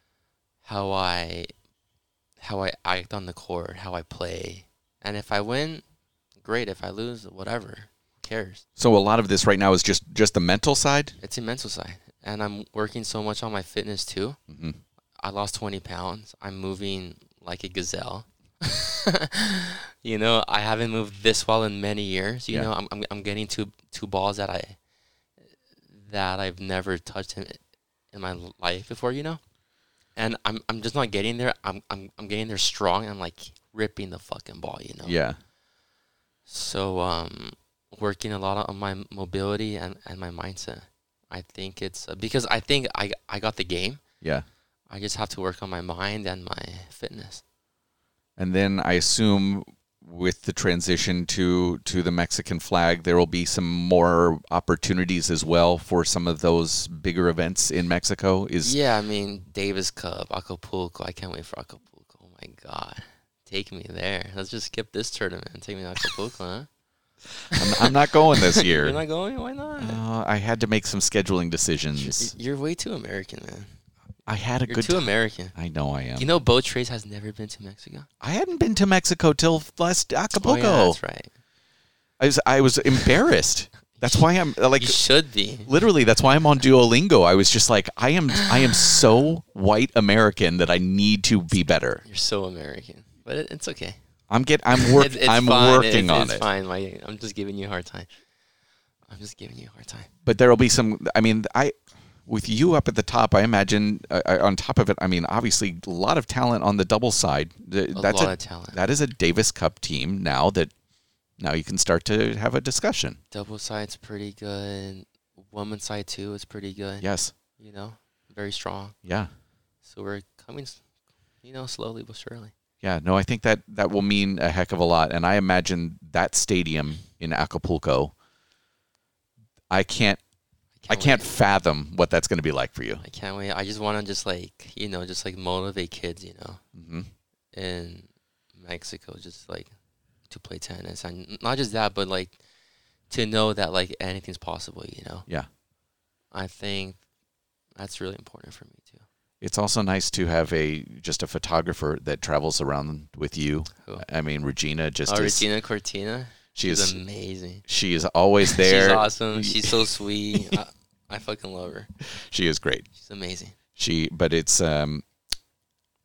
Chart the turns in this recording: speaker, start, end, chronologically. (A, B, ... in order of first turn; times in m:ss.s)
0:00.6-0:01.5 A
0:02.4-0:05.8 A
0:06.4-0:08.6 A
0:08.8-0:11.2 B
0:11.2-0:14.4 A
0:14.5-0:14.8 B
0:15.2-0:24.8 A
0:25.9-0:29.4 A
0:30.1-0:35.2 A
0:35.0-0:35.4 B
0:36.5-0:44.0 A
0:44.2-0:44.5 B
0:44.9-0:47.4 A
0:48.4-0:58.8 B
0:58.6-1:06.7 A
1:07.5-1:10.0 A
1:07.6-1:09.0 B
1:09.8-1:12.3 B
1:12.0-1:13.8 A
1:14.3-1:16.3 B
1:14.7-1:15.6 A
1:16.2-1:18.1 A
1:18.2-1:21.0 B
1:20.4-1:21.3 A
1:22.2-1:25.0 B
1:24.0-1:25.7 A
1:25.6-1:32.0 B
1:32.0-1:34.0 A
1:34.3-1:36.5 B
1:34.8-1:38.1 A
1:39.1-1:40.1 A
1:40.2-1:50.7 B
1:48.0-1:48.8 A
1:51.4-1:53.2 B
1:53.3-1:59.0 A
1:57.0-1:57.3 B
1:59.0-1:59.3 B
1:59.8-2:00.8 A
2:01.4-2:02.5 A
2:02.8-2:08.1 B
2:09.7-2:10.2 B
2:10.8-2:11.3 A
2:10.9-2:13.0 B
2:13.0-2:16.6 A
2:16.8-2:17.1 B
2:17.5-2:19.7 A
2:20.3-2:22.4 A
2:23.1-2:25.3 A
2:26.3-2:27.0 A
2:27.8-2:29.1 A
2:29.4-2:35.5 B
2:35.1-2:37.6 A
2:36.6-2:37.0 B
2:37.6-2:40.6 B
2:38.5-2:41.9 A
2:42.1-2:42.9 B
2:43.0-2:43.6 A
2:43.8-2:45.1 B